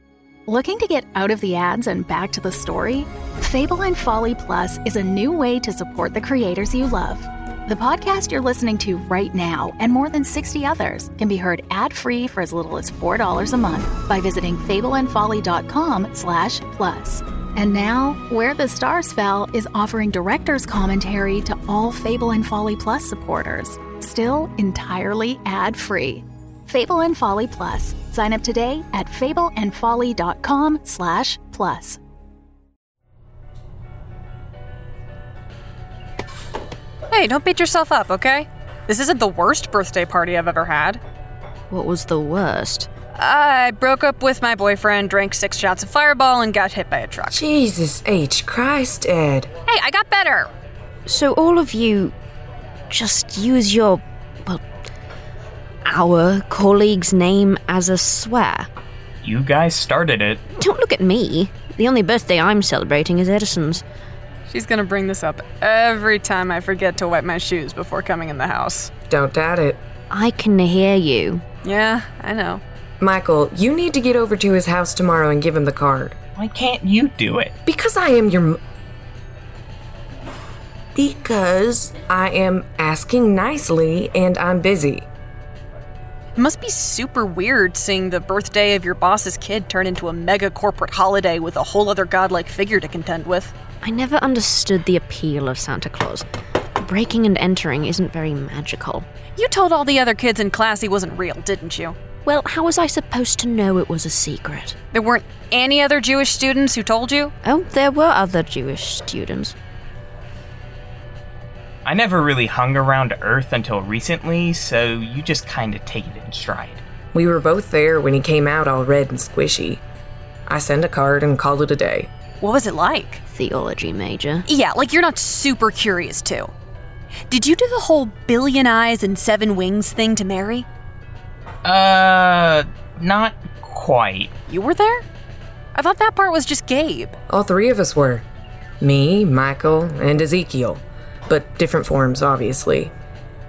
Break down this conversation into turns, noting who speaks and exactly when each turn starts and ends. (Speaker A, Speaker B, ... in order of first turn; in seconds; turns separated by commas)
Speaker A: 0.5-32.0, Speaker B: 37.1-41.0, Speaker C: 41.7-42.9, Speaker B: 43.1-47.4, Speaker D: 47.3-49.5, Speaker B: 49.7-50.5, Speaker C: 51.0-52.1, Speaker C: 52.9-54.6, Speaker C: 55.8-58.7, Speaker E: 59.2-60.4, Speaker C: 60.6-63.8, Speaker B: 64.5-68.9, Speaker D: 69.1-69.8, Speaker C: 70.1-71.4, Speaker B: 71.6-72.6, Speaker D: 73.0-76.2, Speaker E: 76.3-77.5, Speaker D: 77.6-78.6, Speaker D: 80.9-85.1, Speaker B: 86.3-93.5, Speaker C: 93.8-96.2, Speaker C: 96.8-99.0, Speaker B: 99.3-102.0, Speaker C: 102.2-104.8, Speaker B: 104.9-107.3, Speaker C: 107.4-109.5, Speaker E: 111.8-116.8, Speaker D: 117.1-119.8, Speaker D: 120.5-122.1, Speaker B: 122.4-123.2, Speaker C: 123.3-124.5, Speaker B: 124.4-126.5, Speaker B: 127.3-130.7, Speaker E: 131.6-134.3, Speaker B: 134.5-135.1, Speaker B: 135.7-137.2, Speaker D: 137.3-138.2, Speaker D: 138.8-142.9